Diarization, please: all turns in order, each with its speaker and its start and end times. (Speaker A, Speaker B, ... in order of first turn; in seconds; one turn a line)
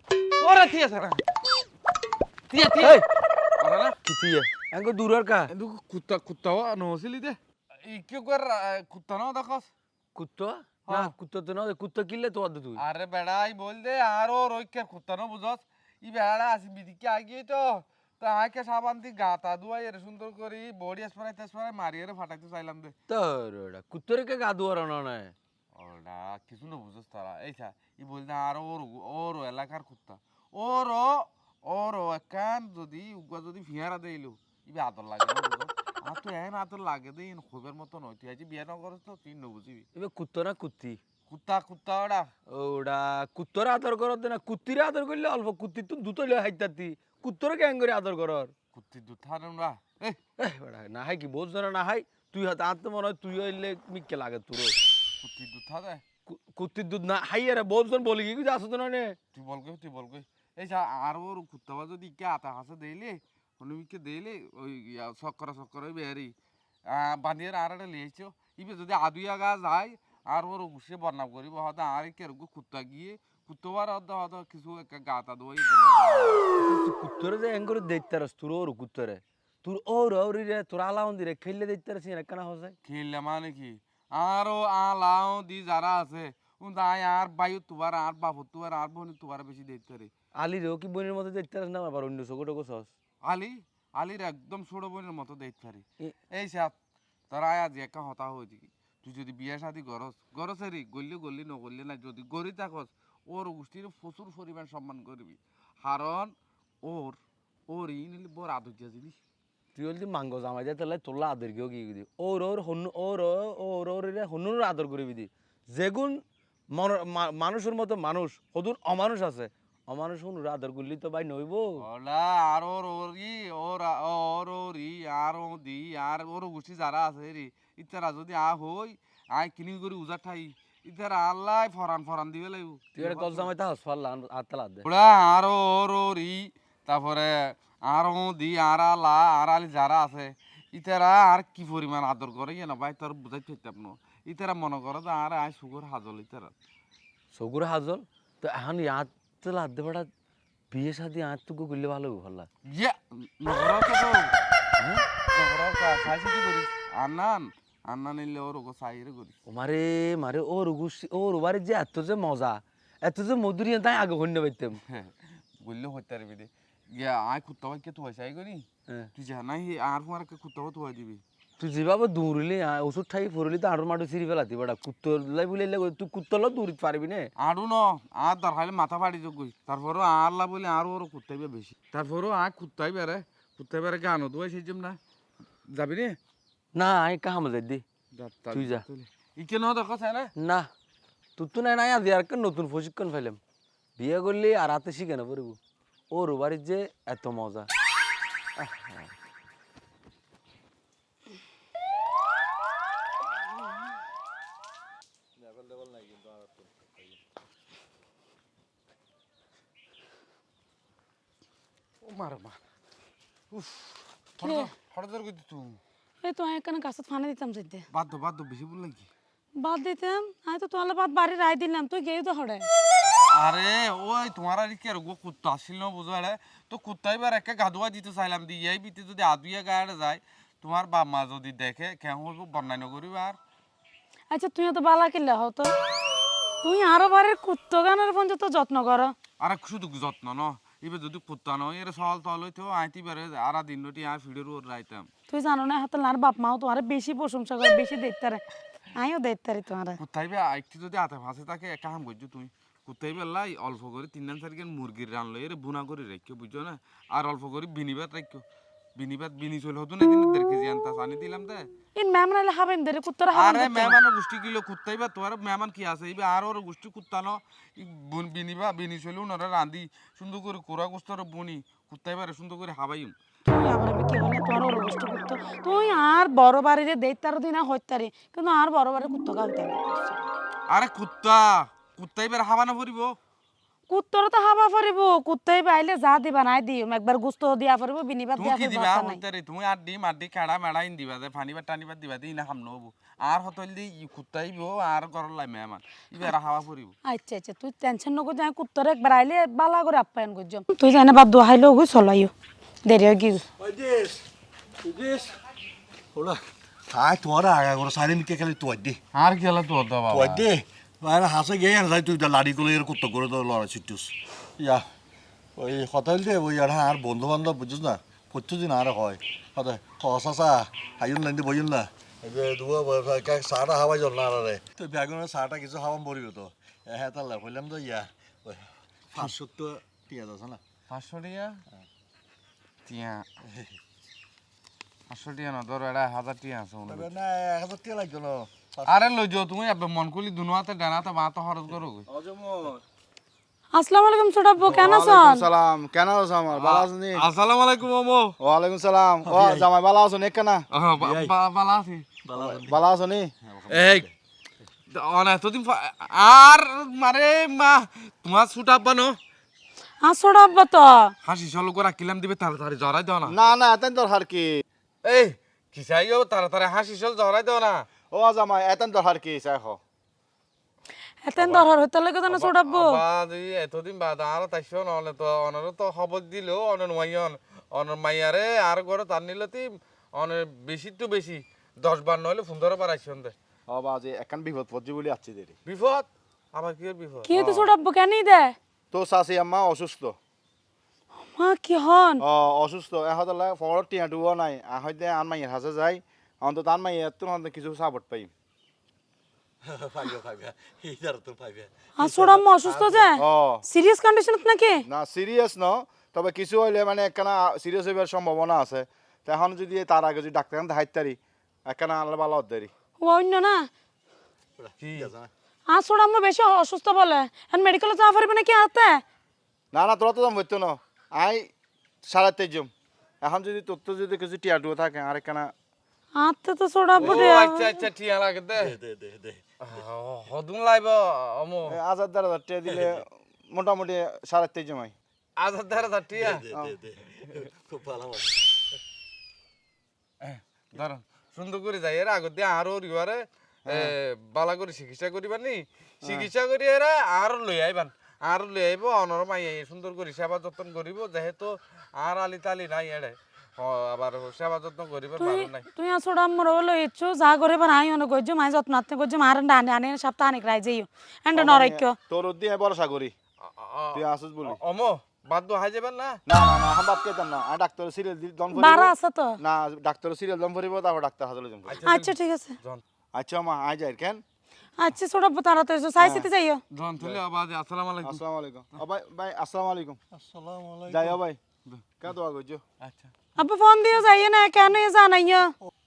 Speaker A: 0.4-1.2
Speaker A: 2.5-3.0
Speaker B: 2.7-3.0
Speaker A: 3.6-4.0
Speaker B: 4.0-5.5
Speaker A: 5.5-9.7
Speaker B: 10.1-12.8
Speaker A: 12.8-22.9
Speaker B: 23.1-25.3
Speaker A: 25.7-39.9
Speaker B: 40.0-41.0
Speaker A: 41.3-42.3
Speaker B: 42.5-48.5
Speaker A: 48.7-50.2
Speaker B: 50.4-54.8
Speaker A: 55.2-56.0
Speaker B: 56.3-59.2
Speaker A: 59.3-66.3
Speaker A: 66.9-76.5
Speaker B: 76.6-82.7
Speaker A: 82.8-90.1
Speaker B: 90.3-92.9
Speaker A: 93.2-96.7
Speaker A: 97.3-109.2
Speaker B: 109.7-121.8
Speaker A: 121.8-133.5
Speaker B: 132.9-134.8
Speaker A: 134.8-146.5
Speaker B: 147.3-150.1
Speaker B: 150.7-152.5
Speaker A: 152.6-154.3
Speaker B: 154.8-155.0
Speaker A: 155.3-159.3
Speaker B: 159.4-164.8
Speaker A: 164.9-171.2
Speaker B: 171.6-177.3
Speaker A: 177.4-185.0
Speaker A: 185.7-186.2
Speaker B: 186.7-187.8
Speaker A: 188.1-190.3
Speaker B: 188.5-188.8
Speaker B: 190.3-190.7
Speaker B: 191.4-193.4
Speaker B: 194.0-195.6
Speaker B: 196.1-197.7
Speaker B: 198.6-199.1
Speaker C: 205.4-207.1
Speaker A: 212.0-212.6
Speaker A: 213.5-215.8
Speaker D: 214.4-214.7
Speaker D: 216.2-217.8
Speaker A: 217.9-219.1
Speaker D: 219.6-222.7
Speaker A: 223.3-233.4
Speaker D: 234.3-235.7
Speaker D: 236.6-239.1
Speaker A: 239.4-245.1
Speaker D: 245.3-248.4
Speaker D: 248.9-250.0
Speaker A: 250.0-258.4
Speaker A: 258.9-261.7
Speaker D: 261.9-264.0
Speaker A: 263.3-273.1
Speaker D: 273.5-280.2
Speaker A: 280.7-283.2
Speaker D: 283.9-289.2
Speaker A: 288.4-296.9
Speaker D: 297.0-302.3
Speaker D: 302.8-303.4
Speaker C: 303.6-304.2
Speaker C: 304.8-305.3
Speaker C: 306.1-309.0
Speaker A: 309.1-310.4
Speaker C: 310.1-314.8
Speaker C: 315.6-330.6
Speaker A: 330.9-331.6
Speaker A: 332.9-333.2
Speaker A: 335.1-337.1
Speaker C: 336.9-338.9
Speaker A: 338.8-342.1
Speaker E: 342.1-342.8
Speaker D: 343.7-345.4
Speaker E: 344.7-347.2
Speaker A: 346.5-348.4
Speaker E: 348.4-350.6
Speaker C: 349.2-349.7
Speaker A: 350.7-352.1
Speaker C: 351.0-351.3
Speaker C: 352.2-352.8
Speaker E: 352.3-353.3
Speaker C: 353.5-354.0
Speaker A: 353.7-354.1
Speaker A: 354.9-359.2
Speaker D: 360.0-361.1
Speaker A: 361.2-363.4
Speaker E: 363.3-364.6
Speaker A: 365.0-367.9
Speaker E: 368.1-369.8
Speaker D: 371.2-373.0
Speaker A: 371.4-371.6
Speaker A: 372.3-383.3
Speaker E: 383.7-385.6
Speaker A: 385.6-387.3
Speaker D: 387.2-388.6
Speaker E: 388.9-390.1
Speaker D: 391.2-392.2
Speaker E: 392.2-398.3
Speaker C: 399.6-402.1
Speaker D: 402.0-404.8
Speaker E: 403.1-403.6
Speaker E: 404.9-412.7
Speaker D: 413.0-413.7
Speaker A: 414.8-415.1
Speaker D: 415.7-419.0
Speaker E: 419.7-421.5
Speaker E: 422.0-425.5
Speaker D: 426.2-427.8
Speaker A: 427.0-428.8
Speaker C: 428.6-429.4
Speaker A: 429.6-431.8
Speaker E: 431.7-434.9
Speaker A: 435.4-436.5
Speaker C: 436.2-438.4
Speaker E: 436.5-436.8
Speaker A: 440.2-455.6
Speaker E: 443.7-443.9
Speaker D: 455.2-462.0
Speaker E: 461.3-463.1
Speaker A: 463.4-466.2
Speaker E: 463.9-464.6
Speaker E: 466.3-471.8
Speaker D: 468.5-469.4
Speaker A: 471.6-472.8
Speaker D: 471.9-472.6
Speaker E: 473.1-474.2
Speaker D: 474.8-476.6
Speaker E: 476.0-476.3
Speaker A: 476.7-478.2
Speaker E: 478.0-480.0
Speaker C: 480.1-481.2
Speaker E: 480.9-481.4
Speaker E: 482.0-482.6
Speaker A: 482.8-483.1
Speaker D: 483.4-485.5